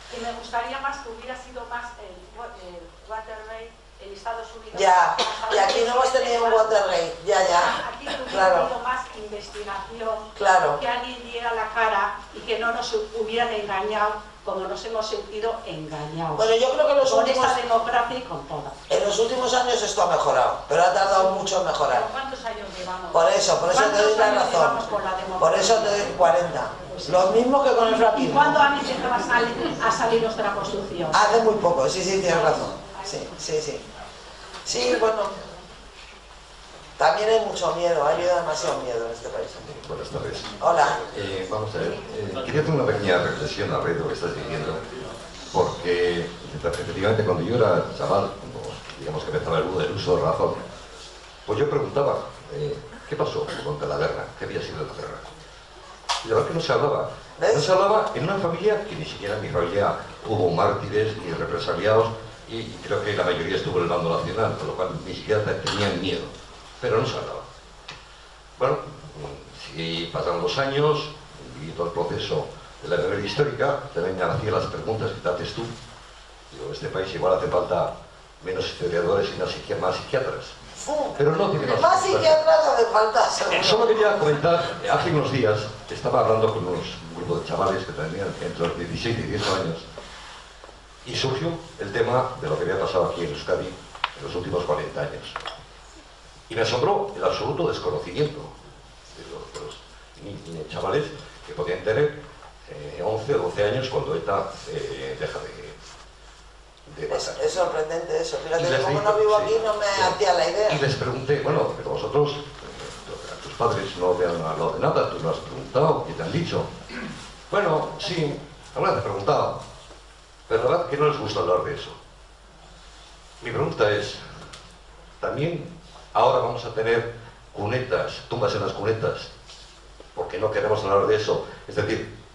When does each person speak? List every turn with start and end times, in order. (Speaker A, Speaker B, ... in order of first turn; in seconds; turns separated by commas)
Speaker A: 0.1-6.9, Speaker B: 4.7-8.7, Speaker A: 7.5-18.8, Speaker B: 10.3-10.8, Speaker B: 16.3-17.6, Speaker B: 18.9-22.1, Speaker A: 21.2-26.1, Speaker B: 23.1-24.8, Speaker B: 25.4-28.6, Speaker A: 26.8-27.3, Speaker A: 28.1-31.3, Speaker B: 31.1-33.9, Speaker A: 32.3-33.0, Speaker B: 34.6-35.3, Speaker B: 37.0-39.6, Speaker C: 39.6-40.5, Speaker B: 40.6-41.0, Speaker C: 41.0-44.8, Speaker C: 45.5-50.6, Speaker C: 51.5-55.3, Speaker C: 56.2-67.5, Speaker B: 57.4-57.7, Speaker C: 68.6-75.7, Speaker C: 76.5-80.5, Speaker B: 80.8-83.9, Speaker C: 81.2-82.3, Speaker C: 83.5-89.8, Speaker C: 91.0-95.4, Speaker C: 96.5-98.5, Speaker C: 99.1-105.8, Speaker C: 106.8-107.5, Speaker B: 107.1-110.8, Speaker C: 108.6-116.7, Speaker C: 117.5-119.6, Speaker C: 120.5-122.0, Speaker C: 123.4-124.4, Speaker C: 125.2-129.3, Speaker C: 130.1-132.1